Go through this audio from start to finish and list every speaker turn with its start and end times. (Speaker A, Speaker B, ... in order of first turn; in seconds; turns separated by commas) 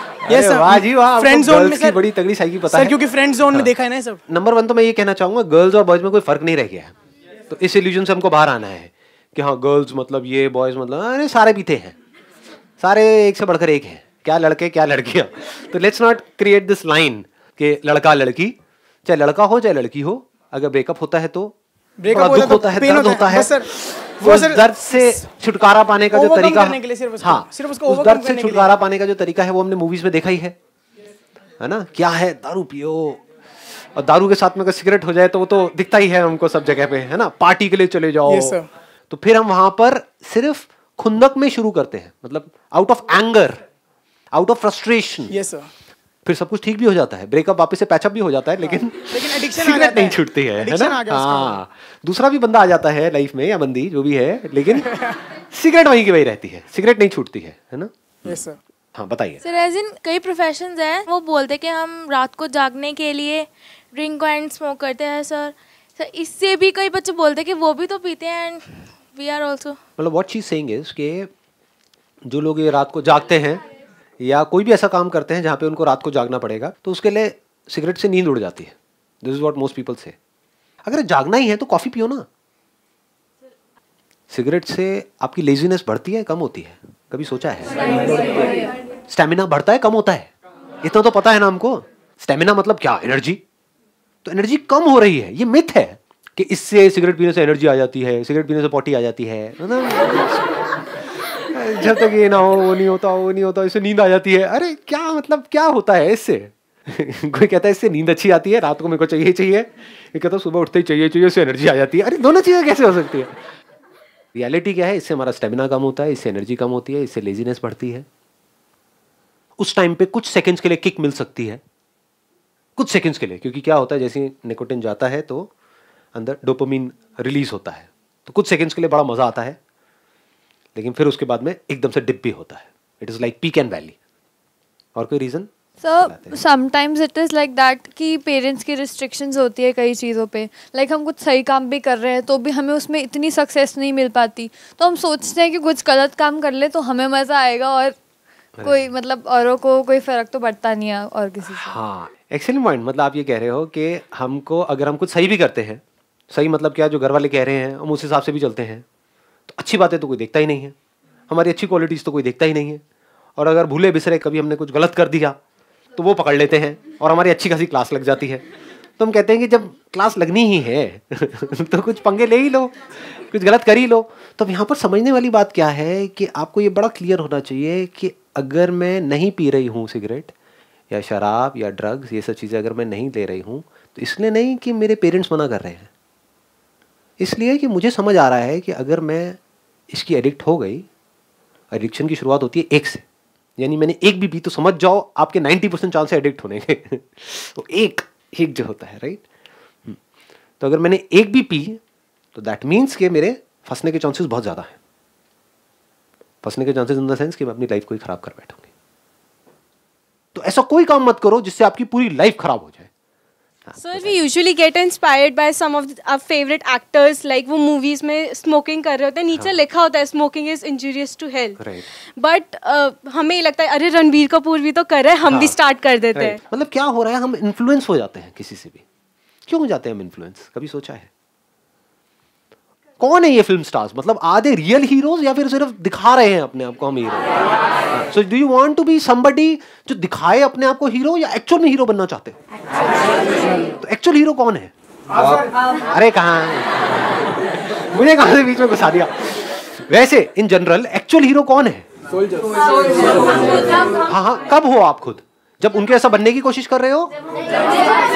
Speaker A: 0.2-3.0, Speaker B: 0.3-2.0, Speaker B: 2.6-4.2, Speaker A: 4.3-6.9, Speaker A: 7.5-11.9, Speaker A: 12.8-21.6, Speaker B: 22.0-25.3, Speaker A: 22.1-30.6, Speaker B: 26.1-28.7, Speaker A: 31.6-33.2, Speaker A: 33.9-38.6, Speaker B: 38.2-38.7, Speaker A: 39.1-43.6, Speaker A: 44.3-45.4, Speaker B: 45.3-45.7, Speaker A: 46.2-57.9, Speaker B: 49.1-51.6, Speaker B: 58.2-58.6, Speaker A: 58.9-59.4, Speaker C: 59.4-69.8, Speaker A: 70.0-71.3, Speaker A: 72.3-73.6, Speaker A: 74.2-80.2, Speaker A: 80.8-82.3, Speaker A: 84.3-88.2, Speaker A: 89.1-90.3, Speaker A: 90.8-93.4, Speaker A: 94.2-113.4, Speaker A: 114.3-118.0, Speaker A: 119.6-121.6, Speaker A: 122.8-125.5, Speaker A: 126.1-129.6, Speaker A: 130.8-133.9, Speaker A: 134.9-136.3, Speaker D: 135.8-147.9, Speaker A: 148.6-148.9, Speaker D: 148.6-151.7, Speaker A: 151.4-158.8, Speaker A: 159.5-160.7, Speaker A: 161.3-162.8, Speaker A: 163.4-165.4, Speaker A: 165.9-168.4, Speaker A: 169.0-180.3, Speaker A: 180.9-185.9, Speaker A: 187.2-189.4, Speaker A: 189.9-190.9, Speaker A: 191.7-193.0, Speaker A: 193.6-199.2, Speaker A: 200.6-201.8, Speaker A: 202.3-204.8, Speaker A: 206.4-208.7, Speaker A: 210.3-212.9, Speaker A: 213.7-214.2, Speaker E: 213.8-221.6, Speaker A: 219.3-219.6, Speaker A: 221.6-221.8, Speaker E: 222.2-226.4, Speaker A: 225.3-225.5, Speaker A: 226.1-228.8, Speaker A: 229.5-231.1, Speaker A: 233.0-237.3, Speaker A: 237.9-242.4, Speaker A: 243.6-251.8, Speaker A: 253.4-257.1